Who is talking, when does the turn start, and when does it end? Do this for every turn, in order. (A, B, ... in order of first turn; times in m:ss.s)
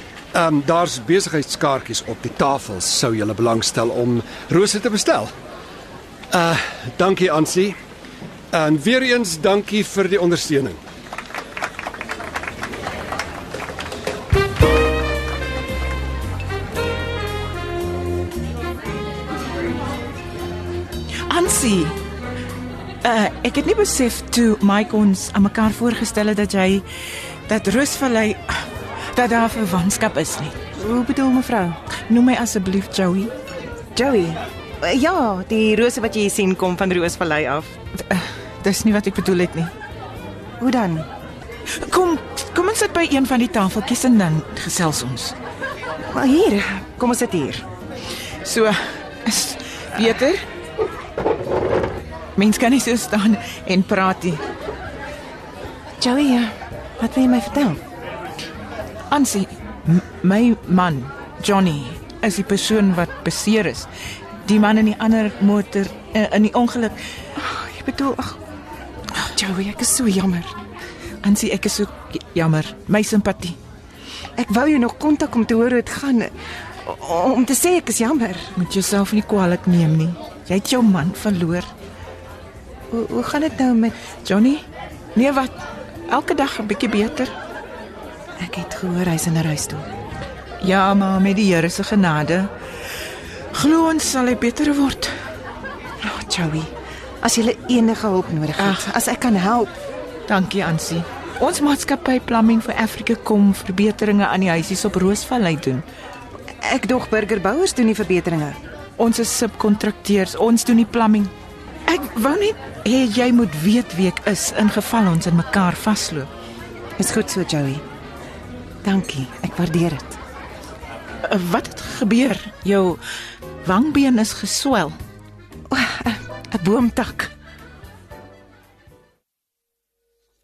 0:00.3-0:05.3 A
0:06.3-0:07.8 A
0:08.5-0:10.8 A
0:21.3-0:22.0 B
0:23.0-0:26.9 B
0:27.5-0:30.6 B
0:30.8-0:31.8 C
0:32.1-0:33.3 B
0:34.0-0:37.7 C
0:38.1-0:39.7 B
0:40.6-0:41.1 C
0:41.8-0:45.4 B
0:46.1-0:47.6 C
0:48.4-0:50.4 B
0:52.4-0:54.4 B
0:56.0-0:57.8 C
0:59.1-1:03.9 B
1:04.4-1:07.0 B
1:07.4-1:08.4 C
1:09.3-1:10.6 C
1:11.2-1:13.6 B
1:14.4-1:16.3 C
1:16.8-1:18.5 C
1:18.6-1:21.7 B
1:22.9-1:24.0 C
1:24.2-1:27.3 B
1:28.4-1:29.9 C
1:30.6-1:32.5 B
1:33.5-1:35.1 B
1:36.0-1:39.7 C
1:38.6-1:38.9 B
1:40.3-1:45.8 B
1:46.6-1:48.6 C
1:49.0-1:51.3 B
1:51.9-1:56.3 B
1:57.0-1:57.8 C
1:58.8-2:00.2 C
2:01.3-2:03.0 B
2:03.6-2:05.0 B
2:05.7-2:07.3 C